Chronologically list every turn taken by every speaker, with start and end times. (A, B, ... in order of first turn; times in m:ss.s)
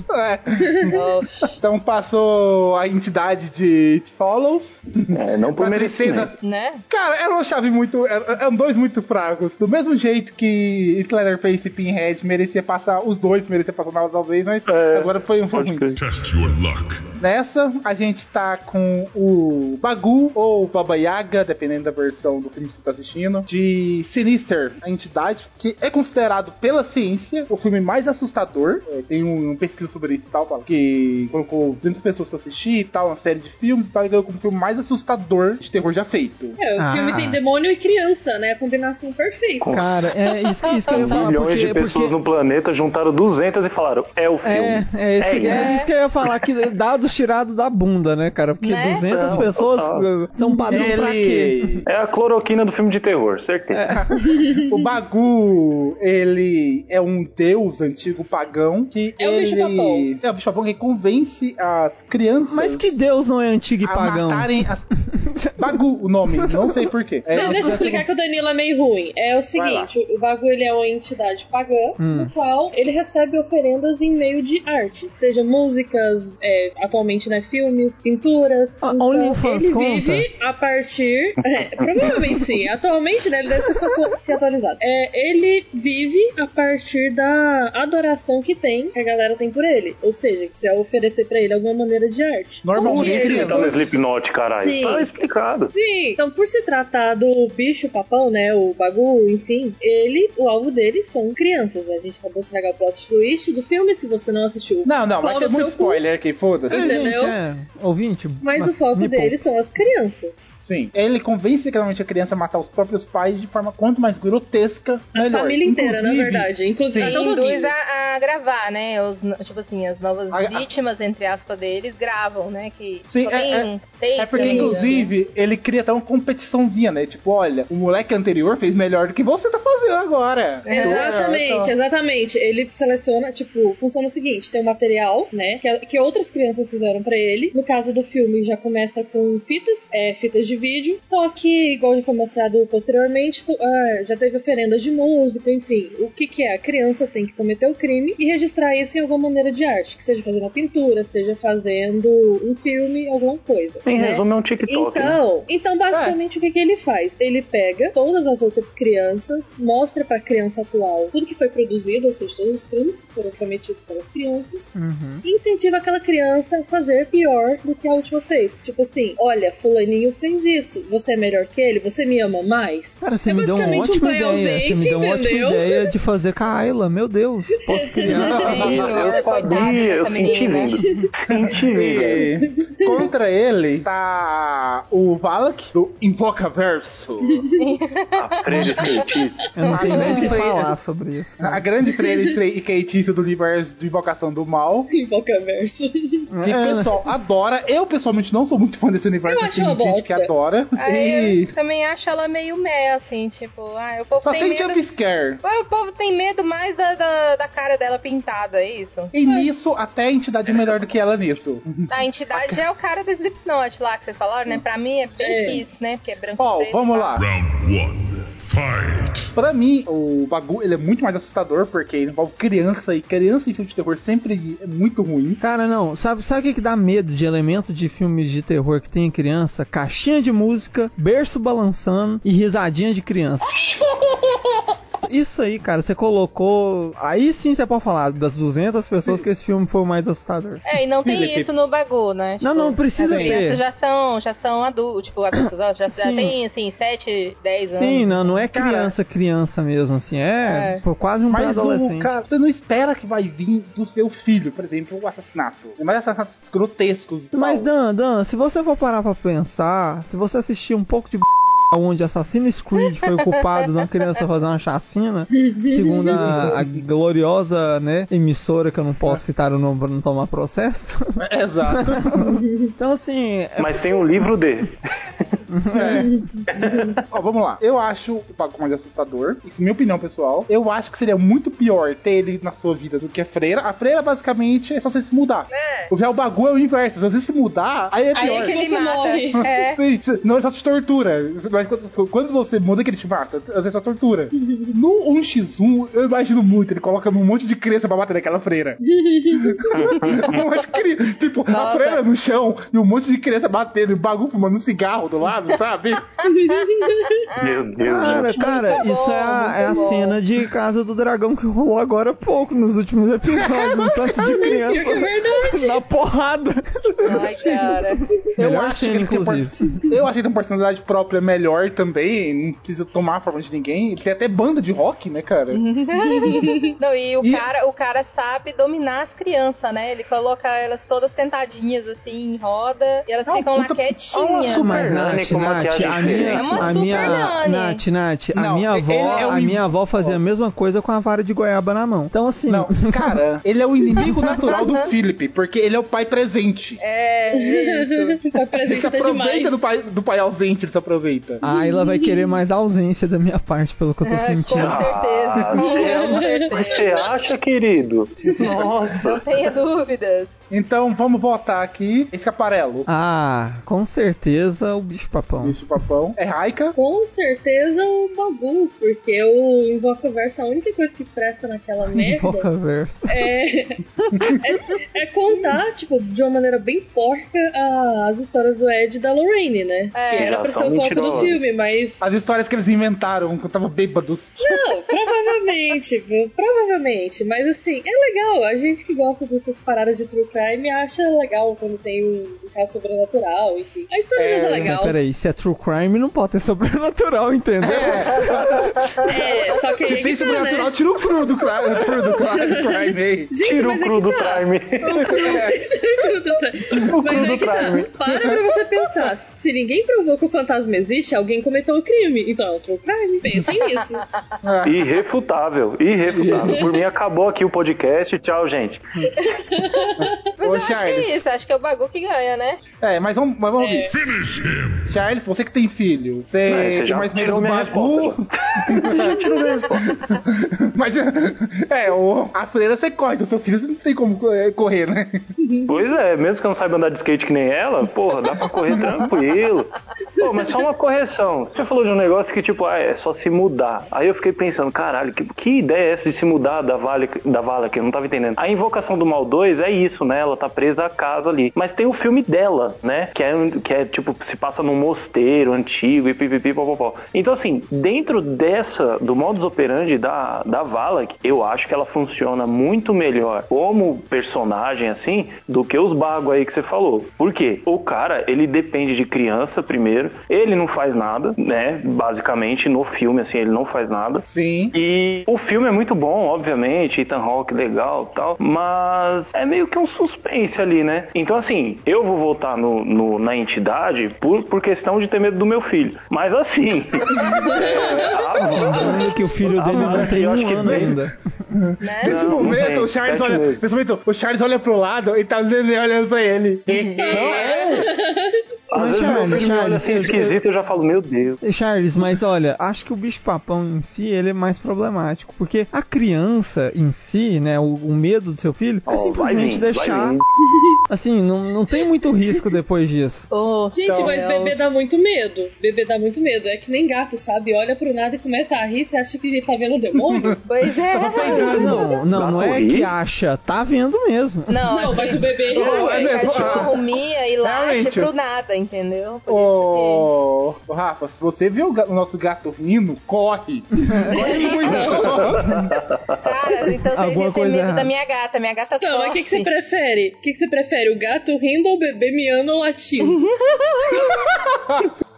0:00.1-0:01.0 A
0:00.9-0:01.6 B
0:01.6-0:06.4 A
0:05.1-0:06.3 C
0:06.4-0:06.8 B
0:06.9-0:16.0 A
0:14.7-0:16.0 C
0:16.0-0:17.2 D
0:17.2-0:36.6 A
0:36.6-0:39.9 E
0:36.8-0:37.4 F
0:39.6-0:40.0 C
0:39.7-0:42.2 F
0:40.9-0:46.3 C
0:44.4-0:51.8 F
0:45.5-0:45.9 B
0:48.6-0:49.1 B
0:49.1-0:50.0 C
0:50.4-0:50.9 E
0:50.7-0:51.8 A
0:51.9-0:53.9 C
0:53.7-0:54.1 F
0:54.1-1:03.0 A
0:54.2-0:54.6 E
0:59.2-1:00.1 E
1:02.4-1:08.0 F
1:03.8-1:04.9 A
1:05.6-1:08.1 A
1:07.3-1:33.8 E
1:09.6-1:09.9 A
1:12.0-1:12.3 F
1:18.8-1:20.3 F
1:21.8-1:22.2 C
1:32.6-1:34.0 A
1:32.8-1:35.7 C
1:34.5-1:35.1 E
1:35.7-1:46.0 E
1:44.8-1:47.2 A
1:46.7-1:47.4 E
1:46.7-1:49.4 F
1:48.4-1:50.6 E
1:50.6-1:57.2 A
1:55.1-1:57.7 E
1:57.0-2:05.1 B
2:00.3-2:00.7 A
2:03.1-2:11.8 A
2:04.3-2:05.0 E
2:10.7-2:11.1 B
2:10.7-2:44.7 E
2:33.9-2:35.2 C
2:35.9-2:36.2 A
2:44.8-2:45.2 F
2:45.2-2:55.9 E
2:53.0-2:58.7 F
2:57.7-2:59.8 E
2:58.1-3:00.7 B
2:58.2-2:59.0 A
2:58.5-3:02.3 C
3:00.8-3:01.1 E
3:01.4-3:07.4 A
3:01.9-3:03.1 E
3:07.3-3:07.6 E
3:07.6-3:09.0 B
3:08.2-3:09.4 C
3:09.6-3:11.6 F
3:09.7-3:10.3 B
3:09.7-3:10.7 A
3:09.8-3:10.2 E
3:11.4-3:14.9 A
3:12.0-3:12.3 E
3:14.9-3:16.3 E
3:16.3-3:17.0 F
3:16.4-3:21.5 A
3:19.2-3:20.3 E
3:20.8-3:24.8 B
3:24.2-3:25.4 A
3:25.4-3:29.1 B
3:29.1-3:32.6 A
3:30.5-3:31.0 C
3:31.9-3:37.2 B
3:35.2-3:35.7 E
3:36.4-3:37.3 A
3:37.2-3:39.3 D
3:39.4-3:45.4 A
3:45.4-3:53.5 F
3:55.1-4:00.6 F
4:00.6-4:08.1 B
4:01.0-4:01.5 A
4:02.4-4:03.6 F
4:03.0-4:03.4 A
4:05.9-4:06.4 F
4:07.7-4:12.1 F
4:08.5-4:08.9 A
4:10.4-4:10.8 B
4:11.3-4:17.7 A
4:17.3-4:34.2 F
4:25.3-4:26.3 E
4:26.2-4:26.8 A
4:31.2-4:32.3 A
4:33.6-4:34.8 C
4:35.5-4:36.2 F
4:35.8-4:36.1 A
4:35.8-4:37.0 E
4:36.5-4:37.0 C
4:37.1-4:48.7 A
4:45.5-4:45.9 B
4:48.1-4:49.5 E
4:48.2-4:49.8 B
4:49.5-4:58.8 A
4:54.4-4:54.7 E
4:58.8-4:59.6 E
4:59.3-5:06.2 A
4:59.7-5:00.4 C
5:01.5-5:02.0 B
5:06.3-5:07.3 E
5:07.4-5:08.4 C
5:07.8-5:17.8 F
5:08.4-5:10.2 B
5:08.5-5:08.8 E
5:14.2-5:15.8 E
5:17.1-5:18.0 B
5:18.4-5:19.6 F
5:18.4-5:25.6 A
5:25.5-5:34.9 B
5:26.1-5:26.6 E
5:33.3-5:35.4 A
5:34.4-5:43.2 F
5:34.9-5:37.0 C
5:35.9-5:36.3 A
5:36.3-5:37.8 B
5:38.3-5:40.2 A
5:39.0-5:39.3 B
5:42.5-5:46.8 A
5:46.8-5:48.2 B
5:47.4-5:49.6 E
5:48.6-5:51.4 A
5:51.4-5:54.9 F
5:51.4-5:52.2 E
5:54.0-5:56.9 B
5:54.6-5:59.2 C
5:55.6-5:57.1 E
5:58.2-5:58.6 E
5:59.0-6:00.4 B
6:00.5-6:02.9 A
6:02.9-6:05.6 F
6:05.4-6:06.8 A
6:06.8-6:12.5 E
6:11.9-6:13.3 F
6:13.1-6:13.8 E
6:14.4-6:22.1 E
6:20.0-6:20.4 B
6:20.2-6:21.4 C
6:22.0-6:24.4 A
6:24.4-6:35.0 E
6:34.2-6:34.8 A
6:34.6-6:38.9 F
6:37.6-6:43.3 A
6:39.0-6:40.8 E
6:41.8-6:54.0 E
6:43.4-6:45.1 C
6:45.0-6:45.6 A
6:46.9-6:47.9 C
6:48.1-6:48.4 A
6:54.4-6:54.8 A
6:54.6-6:58.8 C
6:56.1-6:56.6 A
6:59.1-7:00.3 E
7:00.0-7:01.2 A
7:00.4-7:02.6 B
7:02.8-7:03.9 A
7:03.6-7:03.9 E
7:03.8-7:05.0 D
7:04.9-7:15.2 A
7:06.5-7:09.9 C
7:15.4-7:15.7 E
7:15.7-8:11.0 C
7:18.8-7:19.0 A
7:54.3-7:54.8 A
8:07.1-8:07.5 A
8:07.4-8:09.1 E
8:08.4-8:11.2 F
8:09.7-8:11.0 A
8:11.6-8:17.4 A
8:11.8-8:12.3 B
8:12.0-8:13.6 C
8:16.7-8:17.3 B
8:16.9-8:18.4 E
8:17.1-8:17.9 C
8:18.7-8:21.4 C
8:18.8-8:20.4 F
8:21.4-8:30.2 F
8:28.9-8:30.2 C
8:30.9-8:33.3 F
8:33.3-8:34.8 B
8:33.7-8:40.4 E
8:33.8-8:34.2 A
8:40.0-8:41.9 A
8:40.5-8:42.0 B
8:41.0-8:41.8 E
8:41.1-8:45.1 F
8:42.1-8:42.9 C
8:44.5-8:50.1 B
8:44.7-8:46.5 E
8:45.5-8:48.1 A
8:49.3-8:55.6 A
8:53.8-8:55.7 F
8:54.2-8:54.6 E
8:54.2-8:54.6 B
8:54.8-8:56.2 C
8:56.2-8:59.5 B
8:56.9-8:57.9 F
8:58.8-9:03.2 E
9:03.0-9:04.1 B
9:04.0-9:04.9 A